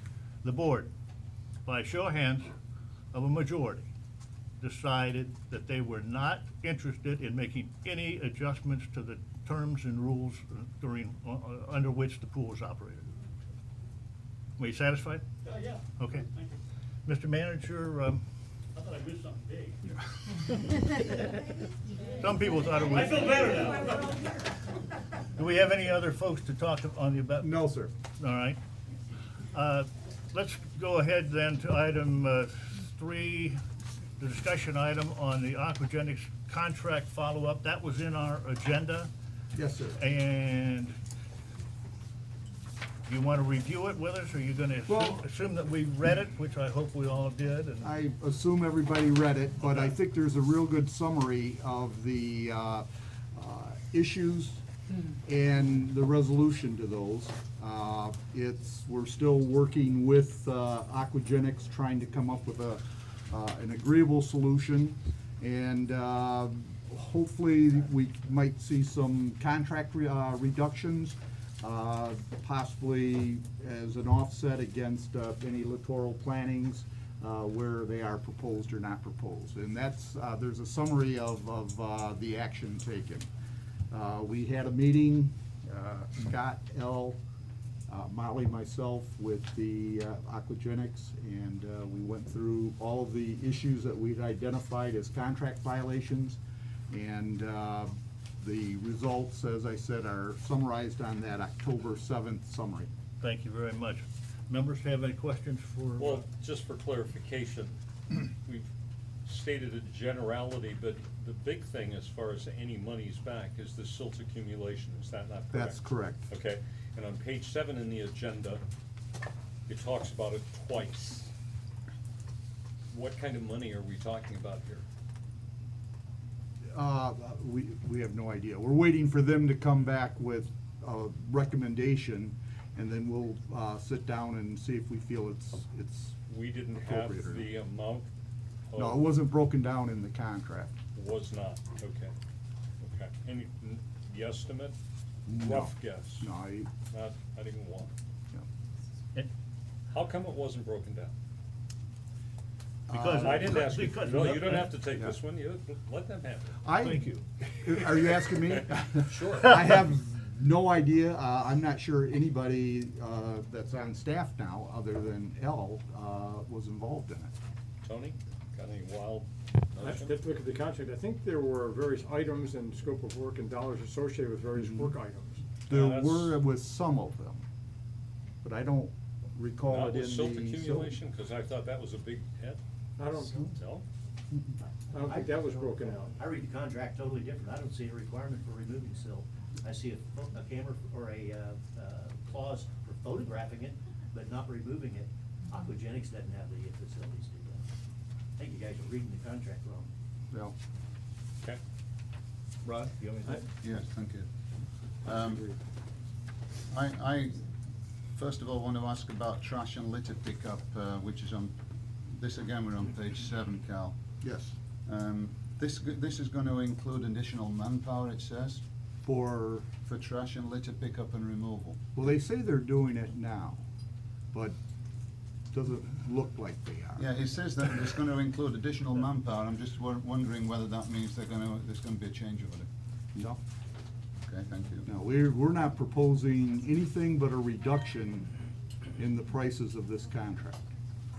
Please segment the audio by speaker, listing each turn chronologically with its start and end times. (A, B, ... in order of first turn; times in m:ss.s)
0:00.4-0:00.9 A
0:01.6-0:02.5 A
0:03.1-0:03.9 A
0:04.6-0:13.2 A
0:14.6-0:16.3 A
0:15.4-0:16.6 B
0:17.1-0:18.2 A
0:18.7-0:19.8 B
0:22.2-0:24.3 A
0:22.8-0:24.3 B
0:25.4-0:27.6 A
0:27.4-0:27.9 C
0:28.2-0:28.6 A
0:29.5-0:33.6 A
0:34.2-0:39.1 A
0:39.6-0:40.0 C
0:40.0-0:41.0 A
0:43.1-0:47.9 A
0:44.9-0:45.3 C
0:47.8-0:54.6 C
0:55.2-1:23.3 C
1:23.9-1:27.2 C
1:27.9-1:42.9 C
1:43.2-1:46.3 A
1:46.0-1:48.7 D
1:49.2-1:58.6 D
1:55.5-1:56.3 C
1:59.7-2:01.3 D
2:02.9-2:04.8 D
2:06.7-2:16.2 C
2:16.3-2:18.1 D
2:16.8-2:17.5 C
2:18.7-2:19.0 D
2:18.8-2:20.8 C
2:21.0-2:22.1 D
2:22.8-2:24.8 D
2:25.3-2:26.7 C
2:25.3-2:26.3 D
2:26.9-2:27.9 D
2:29.9-2:31.1 D
2:32.9-2:33.9 C
2:32.9-2:34.8 A
2:33.1-2:36.6 D
2:36.6-2:47.3 C
2:36.8-2:37.3 A
2:38.3-2:39.7 D
2:47.8-2:50.3 D
2:49.8-2:55.4 E
2:54.6-2:54.9 C
2:55.7-2:56.4 D
2:55.7-2:57.4 C
2:58.4-3:01.0 C
2:59.7-3:02.6 D
3:03.0-3:03.5 E
3:03.5-3:03.8 D
3:04.9-3:06.1 E
3:05.0-3:17.7 F
3:18.4-3:19.9 F
3:22.6-3:23.4 A
3:23.6-3:24.3 G
3:25.0-3:25.5 G
3:25.2-3:25.6 E
3:26.7-3:27.5 G
3:28.2-3:31.6 G
3:32.1-3:34.0 G
3:34.2-3:34.6 C
3:34.9-3:38.6 G
3:39.0-3:39.7 C
3:39.8-3:41.8 G
3:42.0-3:43.6 C
3:45.5-3:47.1 C
3:47.0-3:52.7 G
3:54.2-3:54.9 G
3:54.9-3:58.4 C
3:59.0-4:00.6 C